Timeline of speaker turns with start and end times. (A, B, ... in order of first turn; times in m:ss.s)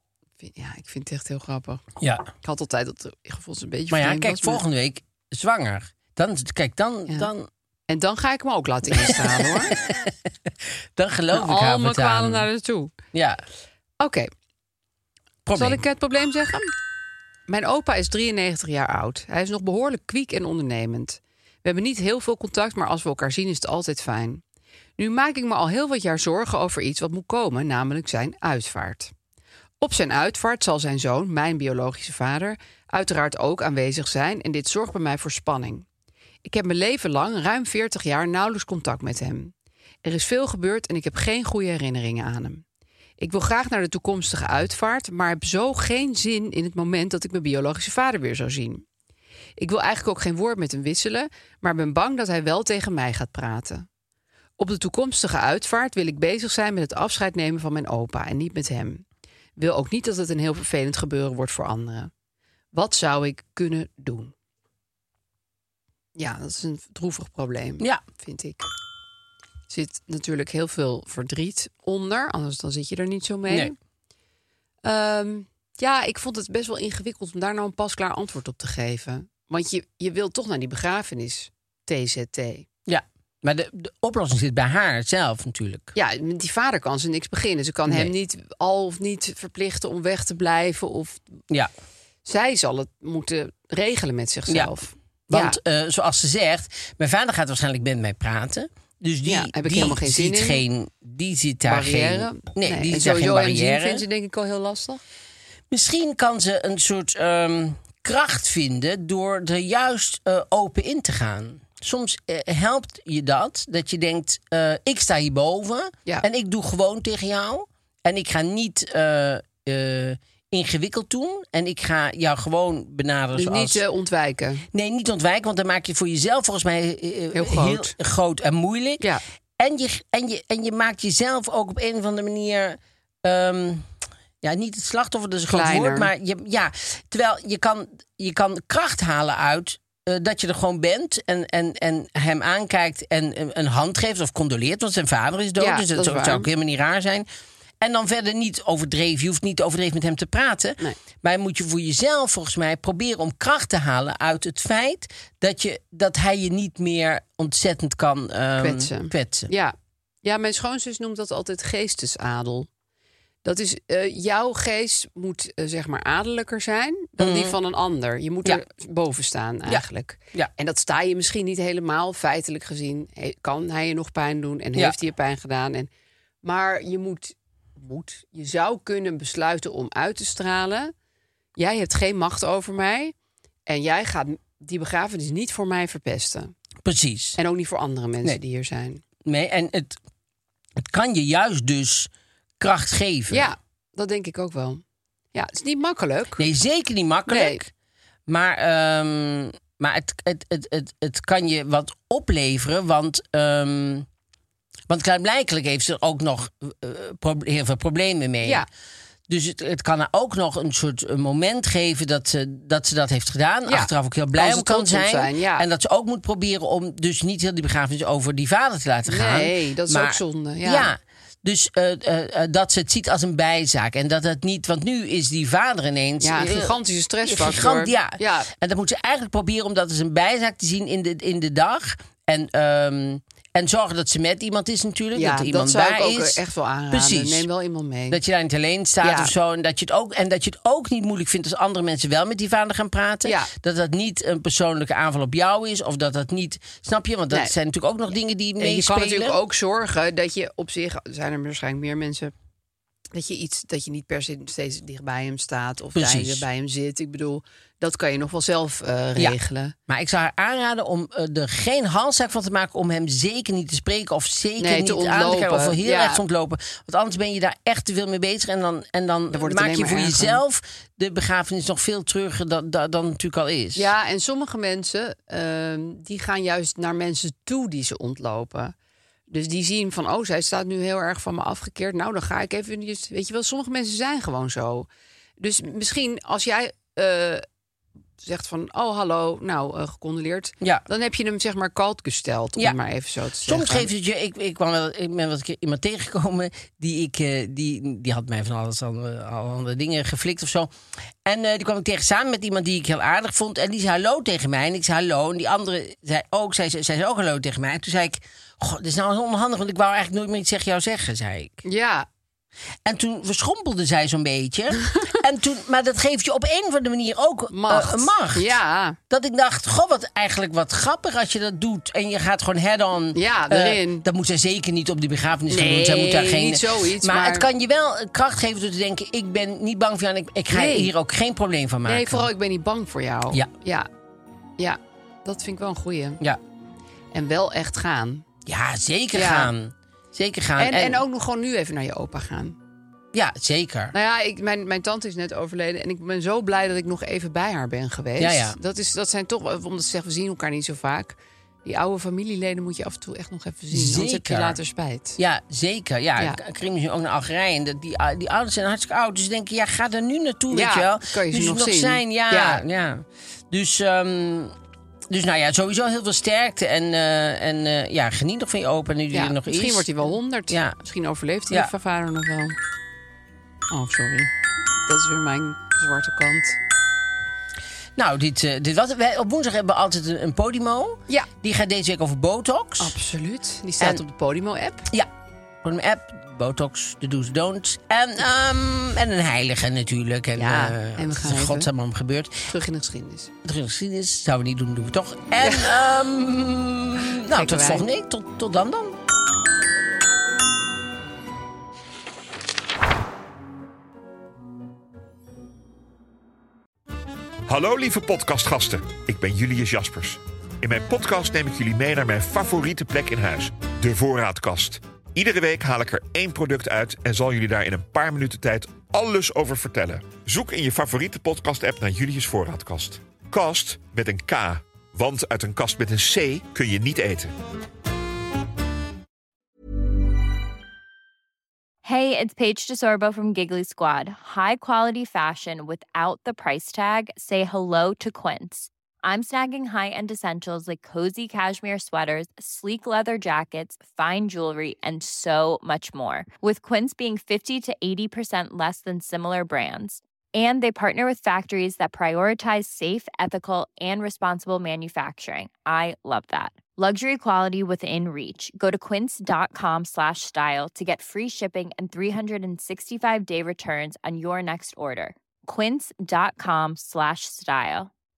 0:00.4-0:01.8 A
0:02.0-0:02.3 B
0:02.4-0:04.6 A
0:03.9-0:07.5 B
0:07.9-0:09.7 A
0:08.9-0:12.5 B
0:11.3-0:12.9 A
0:13.1-0:13.4 B
0:14.0-0:14.3 A
0:15.4-0:15.8 B
0:15.5-0:16.7 A
0:17.5-0:24.4 A
0:25.0-0:29.1 A
0:29.8-0:35.8 A
0:36.4-0:39.5 A
0:40.0-0:42.6 A
0:43.2-0:48.8 A
0:49.6-0:53.8 A
0:54.6-0:59.0 A
0:59.6-1:02.1 A
1:02.7-1:04.3 A
1:06.2-1:08.6 A
1:09.7-1:13.7 A
1:13.5-1:13.7 B
1:14.8-1:22.6 A
1:22.9-1:25.9 B
1:25.9-1:31.2 A
1:27.9-1:28.1 B
1:32.2-1:35.6 A
1:35.3-1:44.0 B
1:39.3-1:40.6 A
1:41.7-1:45.0 A
1:45.7-2:03.8 B
2:03.3-2:04.6 A
2:04.7-2:09.0 B
2:07.3-2:07.9 A
2:09.6-2:13.9 B
2:14.4-2:27.2 B
2:15.5-2:16.1 A
2:25.6-2:26.5 A
2:27.8-2:39.5 B
2:38.6-2:42.7 A
2:43.4-2:55.9 A
2:47.2-2:47.6 B
2:49.6-2:50.5 B
2:56.4-3:00.9 A
3:01.6-3:03.1 A
3:03.7-3:06.5 A
3:06.8-3:07.4 B
3:07.4-3:09.0 A
3:09.2-3:10.0 B
3:10.8-3:13.5 B
3:13.3-3:14.8 A
3:15.3-3:16.4 A
3:16.4-3:17.7 B
3:17.3-3:17.6 A
3:18.3-3:24.1 B
3:24.9-3:28.6 B
3:28.4-3:28.7 A
3:29.3-3:57.5 B
3:33.6-3:35.7 A
3:39.1-3:40.9 A
3:46.2-3:48.5 A
3:55.1-3:58.2 A
3:58.1-4:09.4 B
3:59.0-3:59.3 A
4:03.2-4:03.5 A
4:08.6-4:12.3 A
4:13.1-4:19.7 A
4:15.9-4:16.4 B
4:19.9-4:33.9 B
4:24.6-4:26.2 A
4:29.3-4:30.4 A
4:33.7-4:38.7 A
4:39.3-4:44.9 A
4:45.4-4:47.4 A
4:48.2-4:53.9 A
4:50.6-4:50.8 B
4:53.4-5:00.7 B
5:01.2-5:11.6 B
5:11.6-5:12.0 A
5:12.8-5:18.6 B
5:17.5-5:19.0 A
5:19.1-5:32.3 B
5:23.1-5:24.0 A
5:25.5-5:27.5 A
5:30.5-5:30.9 A
5:31.8-5:33.9 A
5:34.6-5:36.2 A
5:37.1-5:38.2 A
5:38.4-5:41.0 B
5:39.1-5:39.5 A
5:40.6-5:42.6 A
5:43.1-5:43.9 B
5:43.9-5:55.2 A
5:48.2-5:48.6 B
5:53.7-5:54.6 B
5:55.2-6:04.6 B
6:00.5-6:02.6 A
6:05.1-6:10.8 B
6:09.1-6:12.6 A
6:13.7-6:14.3 A
6:14.8-6:16.6 A
6:18.0-6:22.9 B
6:22.8-6:24.9 A
6:25.6-6:32.5 B
6:30.4-6:31.7 A
6:32.5-6:33.3 A
6:33.4-6:39.0 B
6:35.4-6:35.7 A
6:37.2-6:37.9 A
6:47.5-7:07.3 C
7:11.8-7:47.9 D